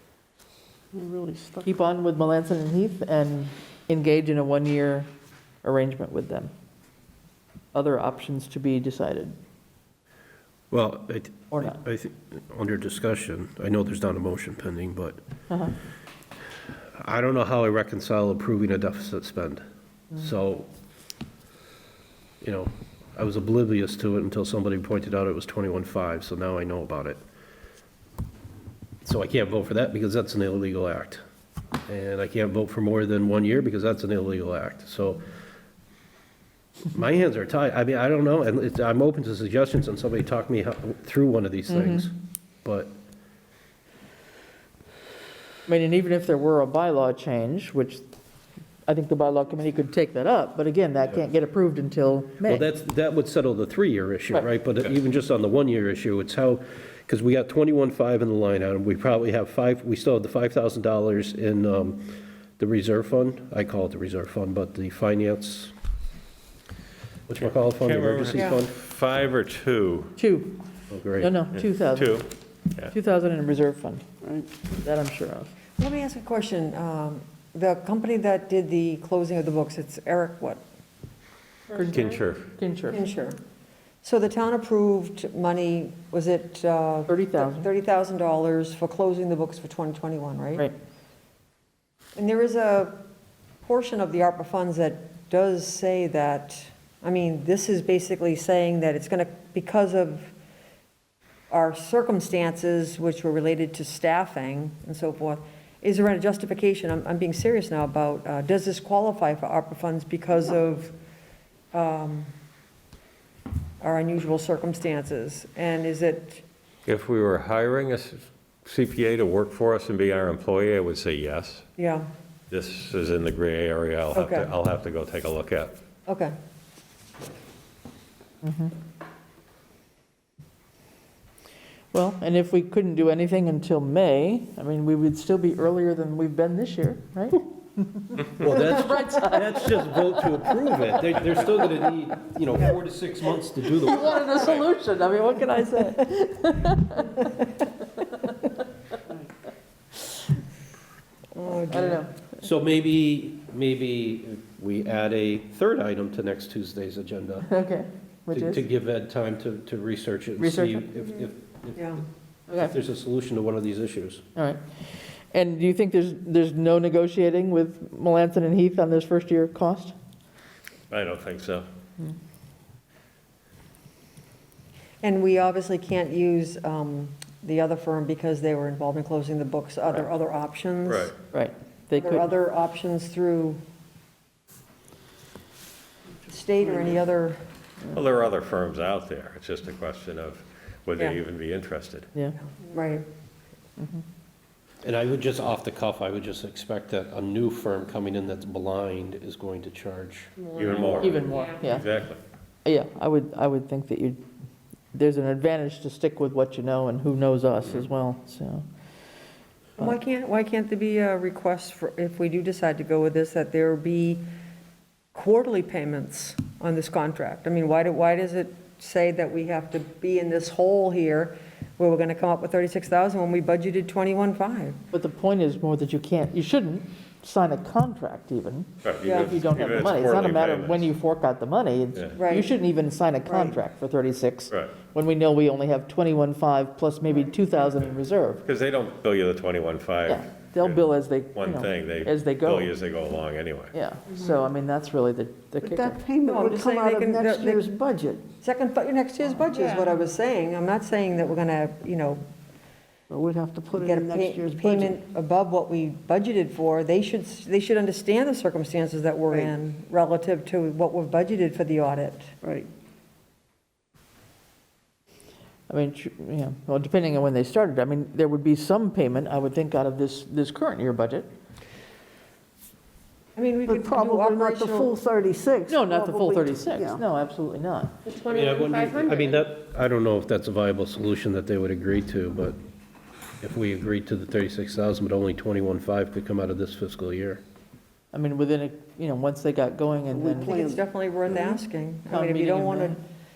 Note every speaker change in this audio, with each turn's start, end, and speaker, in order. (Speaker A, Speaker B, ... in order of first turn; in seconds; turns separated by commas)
Speaker A: 0.9-1.8, Speaker B: 1.6-5.1, Speaker B: 5.6-6.5, Speaker B: 7.7-9.4, Speaker C: 10.7-15.2, Speaker B: 11.5-11.8, Speaker B: 15.5-15.8, Speaker C: 17.0-19.6, Speaker C: 20.1-20.7, Speaker C: 22.4-27.2, Speaker C: 29.0-31.2, Speaker C: 31.9-35.3, Speaker C: 36.9-42.9, Speaker B: 41.7-42.0, Speaker B: 45.7-48.0, Speaker B: 48.9-52.7, Speaker C: 52.5-65.7, Speaker C: 67.3-68.7, Speaker D: 67.4-70.2, Speaker E: 68.3-68.6, Speaker B: 70.2-70.6, Speaker C: 70.9-71.3, Speaker B: 71.2-72.3, Speaker D: 71.5-72.9, Speaker B: 72.9-74.0, Speaker A: 74.2-74.5, Speaker B: 74.8-75.5, Speaker E: 75.8-80.6, Speaker B: 81.7-83.0, Speaker D: 81.9-82.5, Speaker E: 82.9-83.4, Speaker E: 84.0-90.7, Speaker B: 87.1-87.7, Speaker E: 92.2-93.0, Speaker E: 93.6-100.3, Speaker E: 101.5-110.9, Speaker E: 111.7-112.3, Speaker E: 113.8-116.4, Speaker D: 116.9-121.7, Speaker E: 121.8-122.1, Speaker D: 122.5-125.8, Speaker E: 124.1-124.5, Speaker E: 126.1-126.3, Speaker B: 128.4-128.7, Speaker B: 131.9-140.5, Speaker C: 138.4-144.6, Speaker B: 141.1-141.7, Speaker B: 143.8-147.5, Speaker D: 144.4-144.7, Speaker B: 148.0-148.4, Speaker E: 151.3-152.0, Speaker B: 151.7-152.1, Speaker C: 152.4-157.5, Speaker B: 157.5-158.6, Speaker C: 158.3-161.9, Speaker B: 160.4-160.8, Speaker E: 161.8-162.0, Speaker C: 162.6-164.2, Speaker B: 164.4-169.9, Speaker D: 170.9-171.7, Speaker E: 175.0-181.1, Speaker D: 180.8-181.2, Speaker B: 181.3-182.3, Speaker E: 182.0-183.6, Speaker E: 186.3-187.4, Speaker D: 187.9-192.1, Speaker E: 192.4-193.1, Speaker C: 194.8-200.3, Speaker F: 200.4-201.5, Speaker D: 200.6-202.2, Speaker B: 201.0-201.9, Speaker B: 202.7-204.2, Speaker B: 204.9-208.6, Speaker E: 209.8-214.2, Speaker E: 215.1-224.8, Speaker B: 224.9-238.4, Speaker D: 228.8-230.9, Speaker E: 229.0-229.4, Speaker E: 232.2-232.5, Speaker D: 238.4-243.7, Speaker B: 240.1-242.7, Speaker B: 243.7-246.0, Speaker A: 244.1-244.4, Speaker A: 245.6-248.2, Speaker E: 246.2-247.7, Speaker E: 248.4-252.2, Speaker A: 249.4-249.9, Speaker A: 253.1-255.0, Speaker E: 253.7-262.3, Speaker A: 262.4-262.7, Speaker B: 265.7-271.3, Speaker E: 273.4-274.9, Speaker A: 273.6-277.0, Speaker B: 275.7-277.9, Speaker F: 278.1-279.4, Speaker C: 278.2-282.6, Speaker C: 283.4-287.4, Speaker B: 288.1-290.6, Speaker A: 290.1-291.6, Speaker E: 290.3-293.0, Speaker B: 292.1-293.0